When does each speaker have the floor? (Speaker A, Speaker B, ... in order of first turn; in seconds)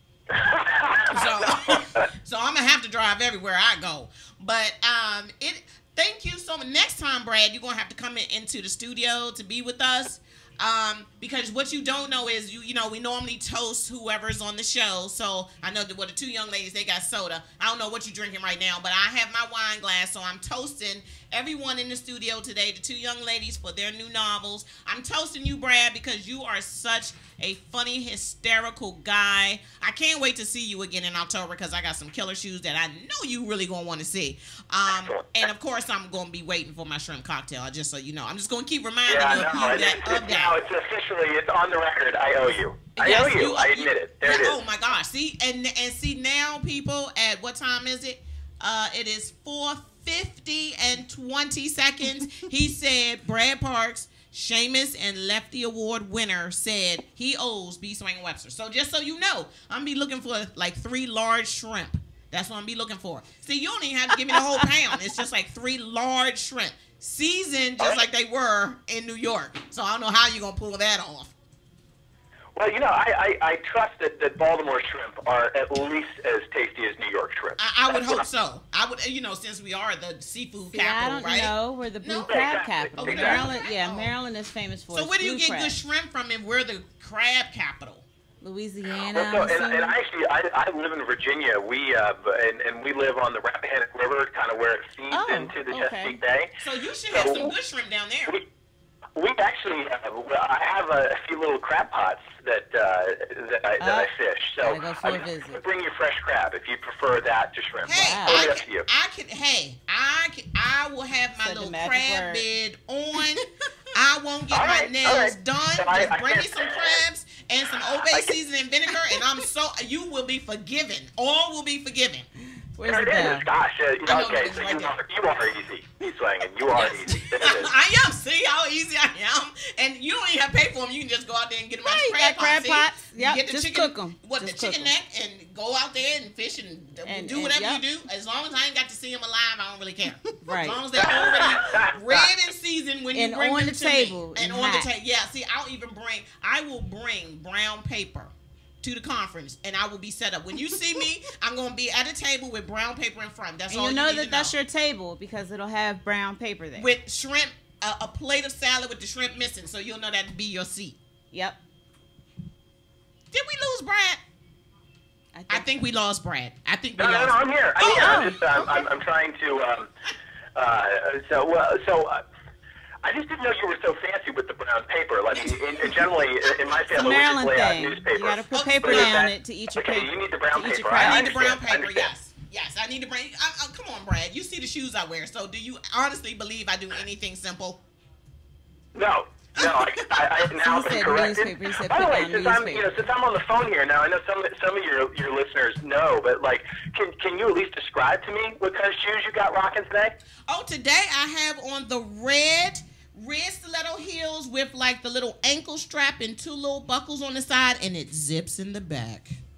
Speaker A: 0.3-2.0, 34.9-35.4, 39.1-44.6, 72.6-78.2, 82.2-83.5, 89.1-96.5, 97.1-97.6, 99.2-108.9, 114.5-117.0, 118.1-118.4, 122.8-127.7, 140.9-142.3, 167.0-169.9, 170.6-172.2, 173.0-182.1, 188.9-200.1
Speaker B: 1.1-40.5, 42.9-71.3, 77.6-84.1, 84.9-88.0, 96.6-98.3, 107.9-122.3, 124.1-125.0, 126.7-154.5, 156.8-161.0, 163.3-164.2, 165.5-168.8, 175.3-177.3, 178.5-179.3, 180.9-187.8, 200.5-209.4
Speaker C: 80.7-85.8, 88.4-90.0, 95.1-96.2, 103.8-105.6, 108.0-108.5, 111.4-112.5, 122.8-123.5, 131.8-134.9, 137.0-137.8, 140.4-140.8, 143.1-144.9, 153.7-156.9, 161.3-161.6, 165.3-165.7, 167.8-168.5, 176.9-181.3, 190.5-193.1